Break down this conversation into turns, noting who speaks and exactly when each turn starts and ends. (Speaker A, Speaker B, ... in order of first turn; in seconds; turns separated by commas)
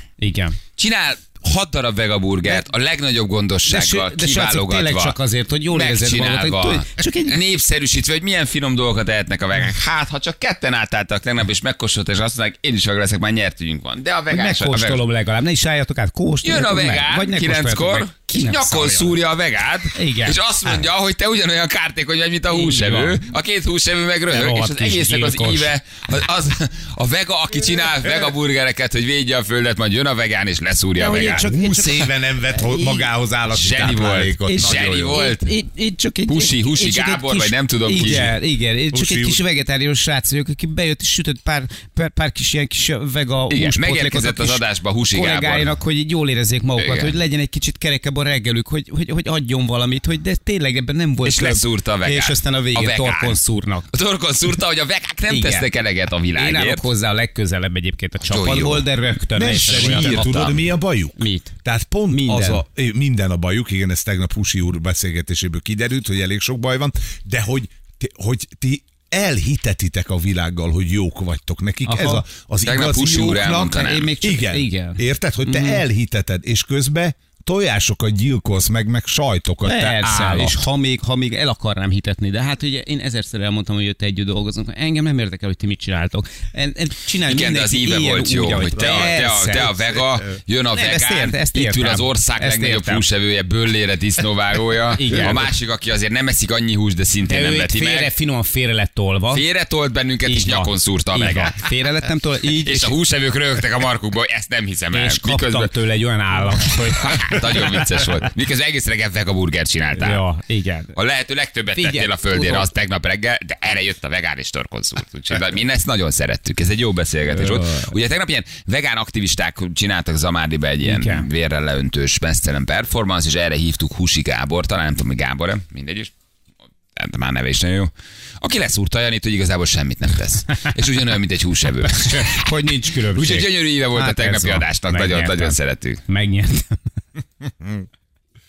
Speaker A: 0.2-0.6, Speaker B: 0.8-5.2, Speaker A: 3.7-7.3, Speaker B: 5.7-15.0, Speaker A: 14.3-19.1, Speaker B: 16.4-31.4, Speaker A: 19.9-20.8, Speaker A: 22.5-23.2, Speaker A: 24.3-25.7, Speaker C: 27.9-28.3, Speaker A: 31.0-33.1, Speaker C: 31.0-35.2, Speaker B: 33.5-35.5, Speaker A: 34.4-53.9, Speaker B: 36.3-38.3, Speaker C: 38.0-38.3, Speaker C: 38.9-39.4, Speaker B: 43.5-45.7, Speaker B: 46.8-47.1, Speaker B: 51.2-53.4, Speaker B: 53.9-56.8, Speaker A: 55.3-55.7, Speaker A: 56.4-60.5, Speaker B: 58.2-58.9, Speaker C: 59.3-80.5, Speaker B: 59.5-60.6, Speaker A: 61.2-61.5, Speaker A: 62.1-62.6, Speaker A: 71.8-72.2, Speaker B: 72.6-74.1, Speaker A: 73.7-75.8, Speaker A: 79.6-90.0, Speaker B: 87.2-98.1, Speaker A: 90.7-93.0, Speaker A: 94.9-95.5, Speaker A: 97.2-99.4, Speaker B: 99.3-101.6, Speaker A: 100.2-102.9, Speaker B: 102.6-105.7, Speaker A: 104.9-108.0, Speaker B: 107.0-110.2, Speaker A: 110.0-110.9, Speaker B: 111.0-126.1, Speaker A: 111.8-112.7, Speaker A: 117.3-117.9, Speaker A: 120.8-121.3, Speaker B: 126.9-132.5, Speaker A: 132.0-135.5, Speaker B: 133.1-136.0, Speaker A: 136.1-136.8, Speaker C: 137.4-137.9